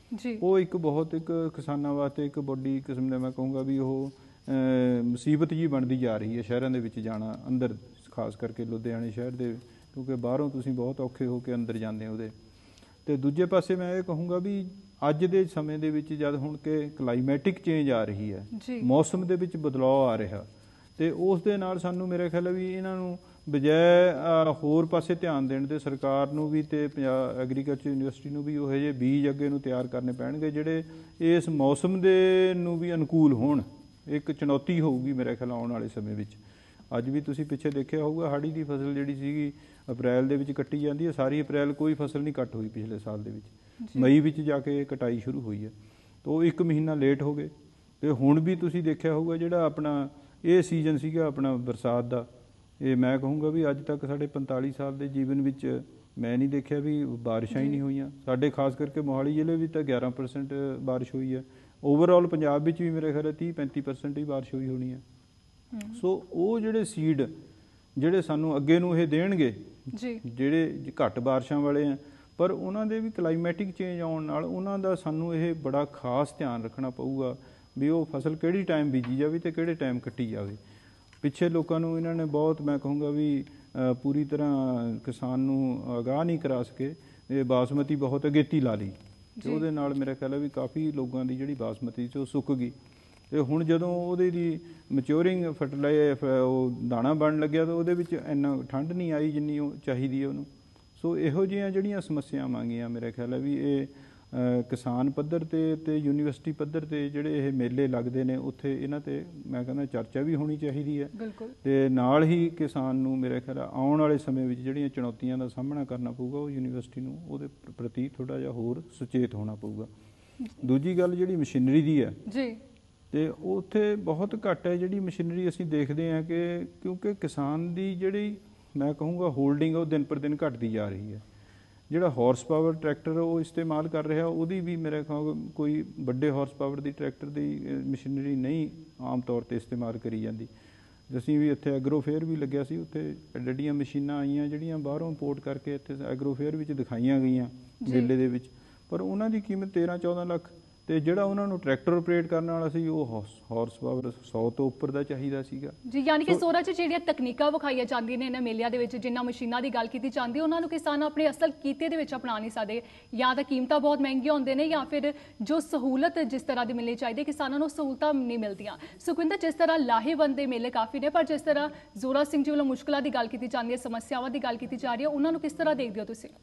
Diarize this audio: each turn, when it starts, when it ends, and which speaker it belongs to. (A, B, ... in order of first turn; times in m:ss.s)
0:00.1-0:00.4 A
0:00.4-0:12.3 B
0:13.0-0:20.4 B
0:18.5-0:18.9 A
0:21.0-0:36.4 B
0:36.9-0:45.7 B
0:43.8-0:44.1 A
0:46.2-0:52.3 B
0:52.8-1:05.0 B
0:57.5-0:57.8 A
1:05.7-1:06.0 A
1:05.9-1:07.3 B
1:08.0-1:09.6 B
1:09.9-1:10.2 A
1:10.2-1:20.6 B
1:21.2-1:32.7 B
1:29.4-1:29.6 A
1:33.3-1:59.9 B
1:51.1-1:51.5 A
2:00.6-2:02.2 B
2:02.3-2:02.6 A
2:03.1-2:11.2 B
2:11.9-2:20.5 B
2:21.1-2:35.7 B
2:27.8-2:28.1 A
2:35.8-2:56.3 A